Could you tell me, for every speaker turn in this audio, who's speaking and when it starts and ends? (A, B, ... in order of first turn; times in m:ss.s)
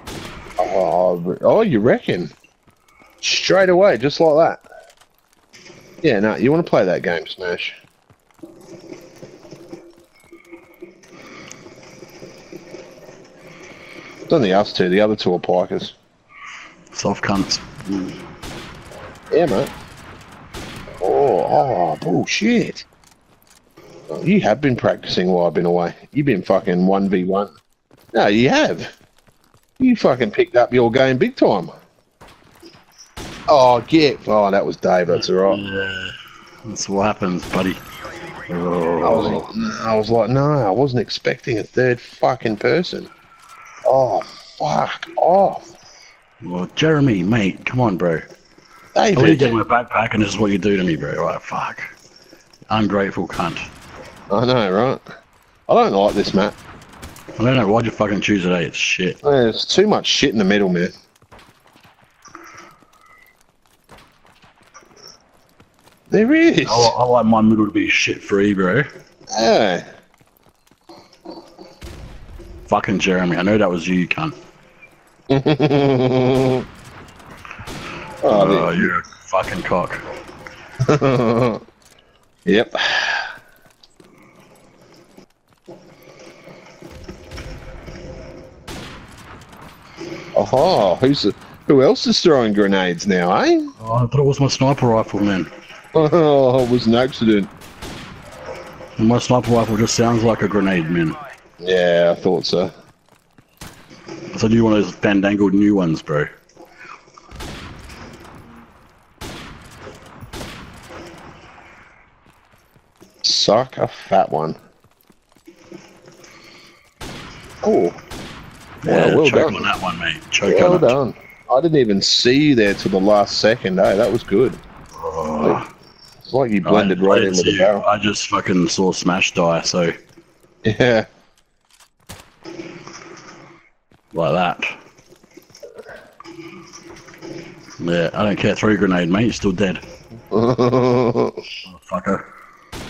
0:00.6-0:02.3 A
0:03.2-0:04.6 A
0:06.0-0:07.7 A
0:14.3-0:15.9 A
0:16.9-0:18.2 B
0:19.3-0:19.7 A
0:21.0-0:22.8 A
0:24.1-0:27.5 A
0:28.1-0:28.9 A
0:29.8-0:31.7 A
0:33.5-0:35.6 A
0:35.1-0:36.1 B
0:36.7-0:37.8 B
0:38.5-0:39.4 B
0:39.0-0:43.1 A
0:43.8-0:45.7 A
0:46.4-0:48.3 B
0:48.9-0:49.6 A
0:49.1-0:51.8 B
0:52.7-0:53.6 B
0:54.3-0:55.0 A
0:55.7-0:56.6 A
0:57.4-0:59.2 B
0:59.2-1:00.9 A
1:06.1-1:06.9 A
1:06.6-1:08.9 B
1:09.3-1:09.8 A
1:12.7-1:14.3 B
1:15.3-1:16.6 A
1:18.2-1:18.9 A
1:18.3-1:20.0 B
1:20.9-1:21.6 A
1:22.4-1:23.3 A
1:30.3-1:33.7 A
1:33.8-1:35.5 B
1:35.9-1:37.5 A
1:39.0-1:41.2 B
1:41.6-1:42.7 A
1:44.3-1:46.3 B
1:53.2-1:54.6 A
1:57.6-1:58.0 A
1:58.8-2:01.0 B
1:58.8-1:59.7 A
2:00.4-2:04.6 A
2:04.9-2:05.6 B
2:06.2-2:07.8 A
2:06.6-2:09.9 B
2:10.6-2:11.0 A
2:14.1-2:14.7 B
2:17.8-2:19.8 B
2:20.3-2:21.4 A
2:21.6-2:22.2 B